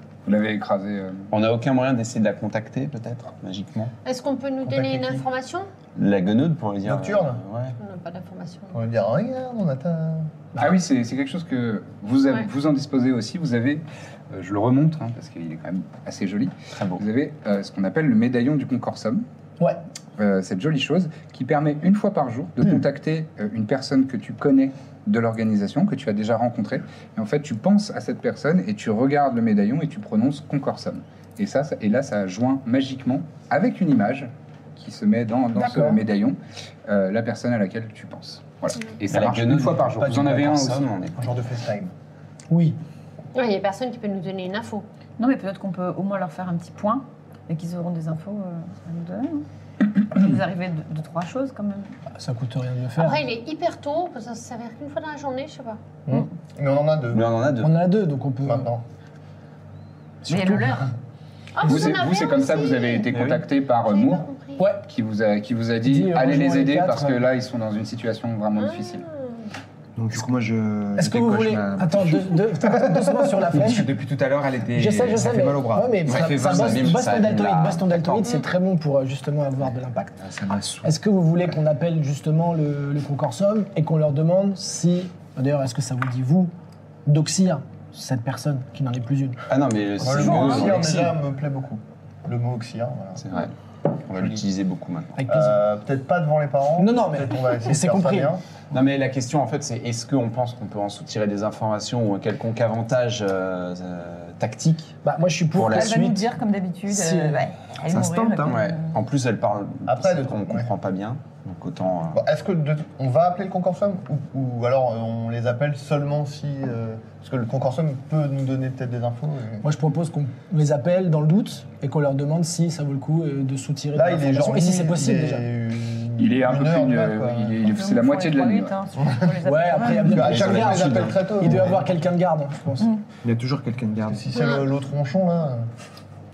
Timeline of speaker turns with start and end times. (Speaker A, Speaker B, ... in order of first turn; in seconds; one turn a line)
Speaker A: 0.2-1.3
Speaker B: 1.3-3.9
Speaker C: 4.0-5.7
Speaker D: 4.6-5.2
Speaker B: 6.0-7.8
Speaker D: 6.8-7.4
Speaker C: 7.8-8.8
Speaker D: 8.7-10.3
Speaker A: 10.6-19.2
Speaker B: 16.7-17.0
Speaker A: 20.2-40.8
Speaker E: 35.5-36.0
Speaker B: 39.0-41.3
Speaker D: 41.1-41.9
Speaker E: 42.5-42.8
Speaker C: 43.3-44.9
Speaker F: 45.2-52.0
Speaker E: 52.2-53.2
Speaker C: 53.0-55.8
Speaker D: 56.0-57.4
Speaker B: 57.1-57.7
Speaker E: 57.6-58.7
Speaker D: 58.4-58.8
Speaker F: 60.2-60.9
Speaker C: 61.5-63.2
Speaker A: 61.6-64.2
Speaker E: 61.6-62.0
Speaker B: 63.1-63.5
Speaker C: 63.8-64.7
Speaker E: 64.6-64.8
Speaker A: 64.8-69.0
Speaker E: 65.8-67.2
Speaker C: 68.5-69.5
Speaker G: 70.0-76.0
Speaker E: 71.0-73.9
Speaker E: 74.8-80.2
Speaker B: 76.0-78.3
Speaker A: 76.1-76.8
Speaker G: 80.2-80.9
Speaker E: 80.8-86.5
Speaker E: 87.0-89.4
Speaker B: 89.5-91.1
Speaker D: 90.0-93.2
Speaker F: 90.4-90.7
Speaker B: 93.2-93.5
Speaker B: 94.0-95.2
Speaker E: 95.2-95.6
Speaker D: 95.3-98.4
Speaker E: 96.8-98.3
Speaker B: 98.7-104.9
Speaker E: 105.0-106.2
Speaker B: 105.5-106.0
Speaker F: 105.6-109.0
Speaker E: 106.9-107.4
Speaker B: 107.9-112.2
Speaker D: 109.8-110.7
Speaker D: 112.1-119.6
Speaker E: 119.6-125.4
Speaker D: 123.9-127.6
Speaker A: 126.2-128.7
Speaker F: 127.7-130.4
Speaker D: 129.0-129.3
Speaker E: 129.4-132.9
Speaker D: 130.0-131.9
Speaker B: 130.1-131.2
Speaker G: 133.2-134.3
Speaker D: 134.1-135.7
Speaker C: 134.3-134.7